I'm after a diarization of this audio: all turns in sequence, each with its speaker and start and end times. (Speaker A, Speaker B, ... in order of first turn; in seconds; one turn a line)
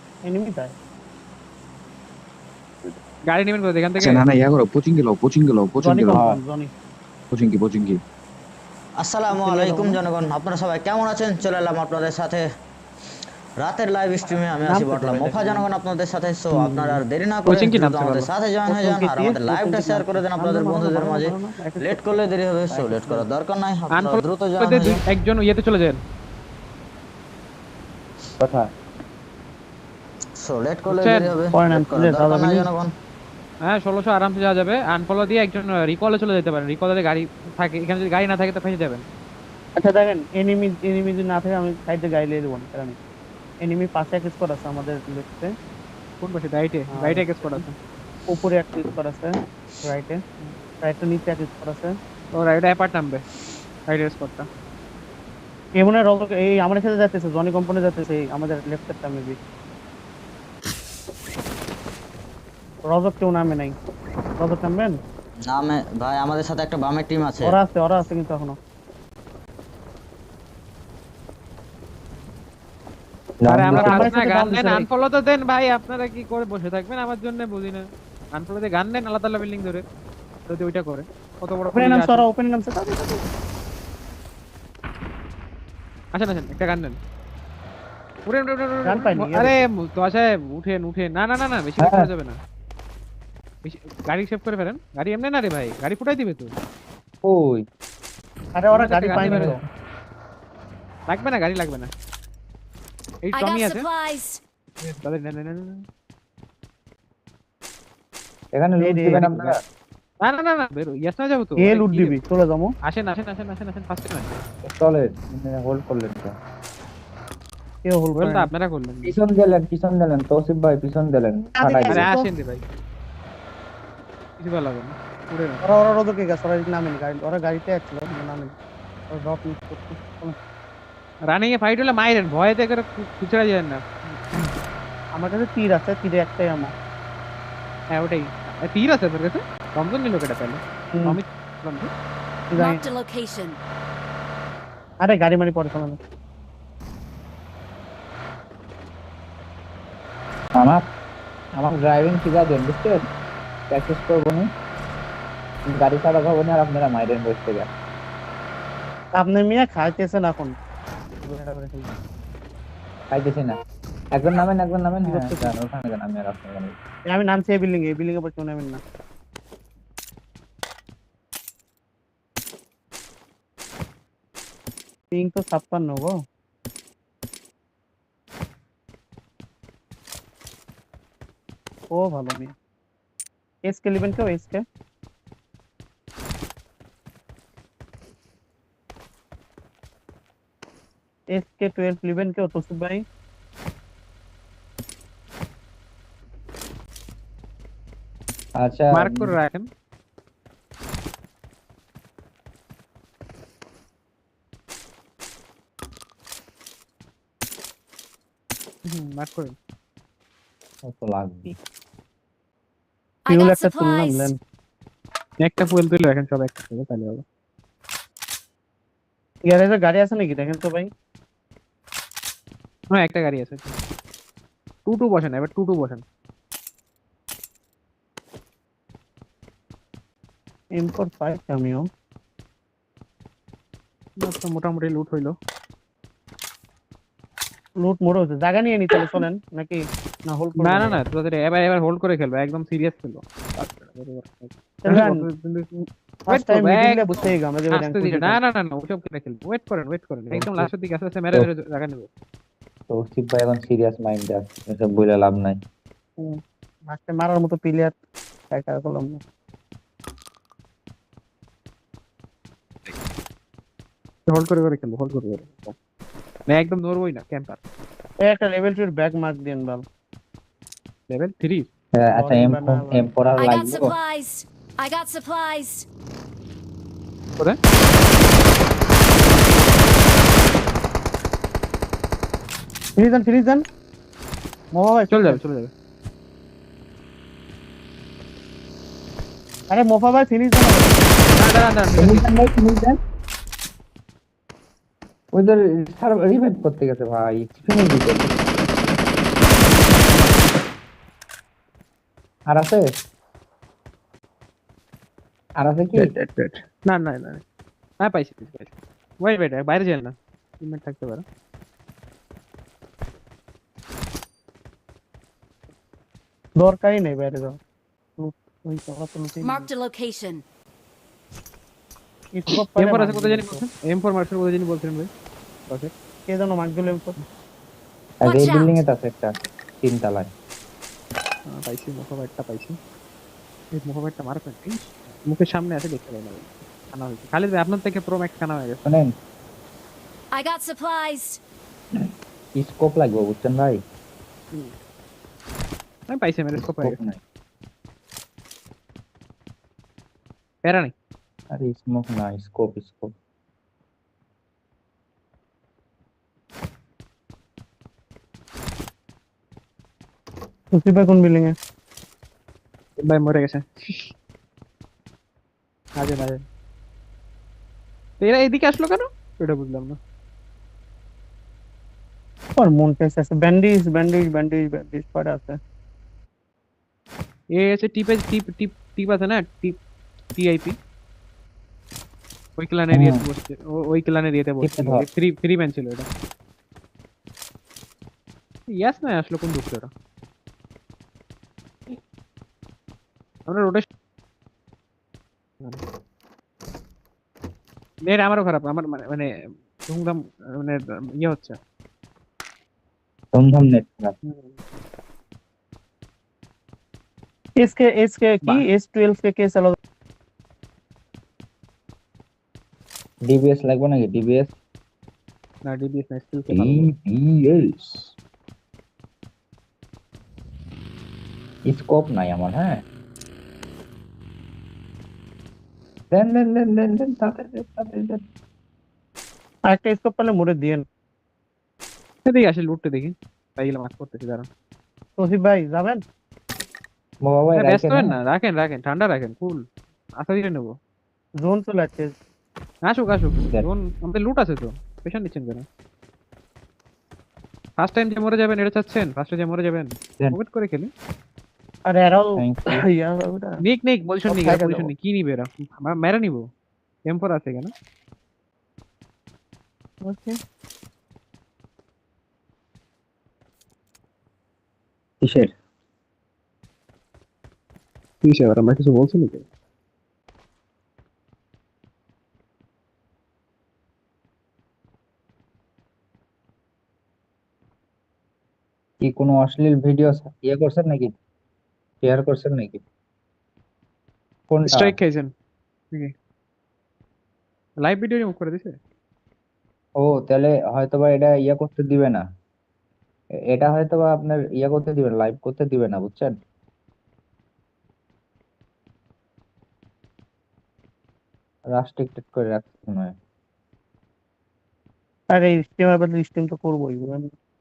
Speaker A: 0.2-0.7
Speaker B: 3.3-4.2
Speaker C: 4.0-6.2
Speaker A: 5.8-6.7
Speaker D: 6.1-6.4
Speaker C: 7.3-8.0
Speaker E: 9.0-12.4
Speaker A: 9.3-10.0
Speaker E: 13.6-25.0
Speaker B: 14.7-15.6
Speaker B: 16.6-16.9
Speaker B: 17.5-18.3
Speaker A: 18.7-23.3
Speaker B: 23.9-26.0
Speaker D: 28.4-28.7
Speaker E: 30.4-32.9
Speaker B: 30.9-31.3
Speaker A: 31.5-32.7
Speaker B: 33.7-39.0
Speaker A: 39.8-43.0
Speaker A: 43.6-45.5
Speaker B: 46.2-47.6
Speaker A: 46.9-47.7
Speaker A: 48.3-50.2
Speaker A: 50.8-52.0
Speaker B: 52.4-53.2
Speaker B: 53.9-54.5
Speaker A: 55.8-59.4
Speaker A: 62.9-63.8
Speaker A: 64.4-65.0
Speaker E: 65.5-67.6
Speaker A: 67.4-68.6
Speaker D: 73.4-74.1
Speaker B: 73.5-77.8
Speaker A: 73.7-74.9
Speaker B: 78.3-79.8
Speaker B: 80.5-82.3
Speaker A: 81.7-83.3
Speaker B: 86.1-87.0
Speaker B: 88.3-92.4
Speaker A: 88.8-89.6
Speaker D: 91.8-92.1
Speaker B: 93.6-96.5
Speaker D: 97.2-97.7
Speaker A: 98.6-99.5
Speaker B: 98.7-99.5
Speaker D: 99.1-99.6
Speaker B: 101.1-101.9
Speaker B: 103.2-103.9
Speaker F: 103.3-104.4
Speaker B: 104.8-105.8
Speaker D: 108.5-109.6
Speaker A: 108.8-109.6
Speaker B: 110.2-112.2
Speaker A: 111.6-112.7
Speaker B: 112.8-114.3
Speaker D: 114.6-116.3
Speaker A: 117.8-118.5
Speaker B: 118.2-119.2
Speaker D: 119.0-122.1
Speaker A: 121.6-122.3
Speaker B: 121.9-122.7
Speaker B: 124.4-125.6
Speaker A: 125.6-128.6
Speaker A: 129.1-130.4
Speaker B: 131.3-134.4
Speaker A: 135.2-136.7
Speaker B: 137.9-141.9
Speaker A: 142.5-142.8
Speaker F: 142.6-143.6
Speaker A: 145.0-146.0
Speaker D: 151.6-153.1
Speaker D: 153.7-154.5
Speaker D: 155.8-157.7
Speaker A: 159.2-160.6
Speaker A: 161.2-161.9
Speaker D: 163.1-163.6
Speaker D: 164.2-166.7
Speaker A: 165.1-165.5
Speaker A: 167.1-168.8
Speaker A: 175.1-176.2
Speaker A: 181.9-182.5
Speaker A: 183.7-184.6
Speaker A: 191.3-193.0
Speaker D: 198.6-199.3
Speaker B: 198.9-199.7
Speaker B: 208.9-209.6
Speaker D: 210.8-211.5
Speaker F: 213.2-214.3
Speaker A: 213.3-214.4
Speaker B: 215.4-217.2
Speaker A: 219.5-220.9
Speaker B: 222.9-223.7
Speaker B: 224.9-226.0
Speaker A: 230.8-231.9
Speaker B: 234.2-235.4
Speaker A: 237.8-241.0
Speaker B: 240.6-245.7
Speaker A: 244.8-245.2
Speaker A: 246.3-248.4
Speaker B: 246.3-252.1
Speaker D: 250.3-250.7
Speaker D: 252.9-255.6
Speaker A: 256.2-258.0
Speaker A: 258.5-259.2
Speaker B: 264.3-265.8
Speaker B: 266.5-267.6
Speaker A: 268.2-269.9
Speaker B: 271.1-271.7
Speaker D: 271.9-273.9
Speaker A: 272.1-273.1
Speaker F: 273.4-275.9
Speaker A: 283.0-283.6
Speaker A: 284.7-285.4
Speaker B: 285.1-285.7
Speaker A: 289.7-291.0
Speaker B: 291.3-292.3
Speaker D: 292.0-293.0
Speaker D: 295.3-298.3
Speaker D: 302.5-302.9
Speaker D: 305.6-306.1
Speaker B: 306.0-307.4
Speaker B: 308.0-311.2
Speaker A: 316.6-317.6
Speaker A: 318.2-319.7
Speaker F: 319.4-320.4
Speaker A: 322.3-323.6
Speaker B: 322.8-325.1
Speaker A: 326.3-327.2
Speaker D: 328.2-330.3
Speaker F: 328.2-328.8
Speaker B: 331.5-332.8
Speaker B: 333.7-338.8
Speaker D: 338.9-339.1
Speaker F: 340.3-341.4
Speaker D: 342.6-343.8
Speaker B: 346.1-347.0
Speaker D: 346.6-347.2
Speaker B: 350.6-350.9
Speaker D: 351.5-353.1
Speaker A: 360.7-361.6
Speaker B: 363.0-364.1
Speaker B: 366.0-366.4
Speaker B: 368.2-370.0
Speaker A: 372.6-375.6
Speaker B: 377.6-379.8
Speaker B: 380.4-380.8
Speaker B: 382.6-386.1
Speaker D: 382.9-383.2
Speaker D: 384.6-385.1
Speaker B: 388.7-389.9
Speaker B: 393.5-393.9
Speaker B: 398.1-399.3
Speaker B: 399.9-401.6
Speaker D: 403.3-404.2
Speaker B: 404.3-404.6
Speaker A: 407.6-409.8
Speaker D: 413.2-414.5
Speaker B: 415.7-416.9
Speaker D: 416.5-418.1
Speaker D: 421.7-422.8
Speaker D: 426.1-428.2
Speaker A: 429.7-430.9
Speaker B: 432.3-434.5
Speaker A: 435.2-436.0
Speaker D: 437.2-438.2
Speaker B: 437.6-439.7
Speaker B: 440.2-440.8
Speaker A: 441.4-442.1
Speaker B: 442.9-445.6
Speaker B: 447.8-450.9
Speaker A: 451.9-453.6
Speaker D: 452.4-452.8
Speaker B: 453.6-456.5
Speaker A: 454.3-454.9
Speaker B: 457.1-457.7
Speaker A: 460.0-460.4
Speaker D: 465.2-465.5
Speaker B: 468.2-469.4
Speaker D: 479.0-481.1
Speaker D: 482.0-482.8
Speaker D: 484.5-484.9
Speaker B: 484.7-485.3
Speaker B: 487.8-488.8
Speaker D: 490.0-492.2
Speaker D: 493.5-496.4
Speaker D: 501.7-503.1
Speaker A: 505.3-507.3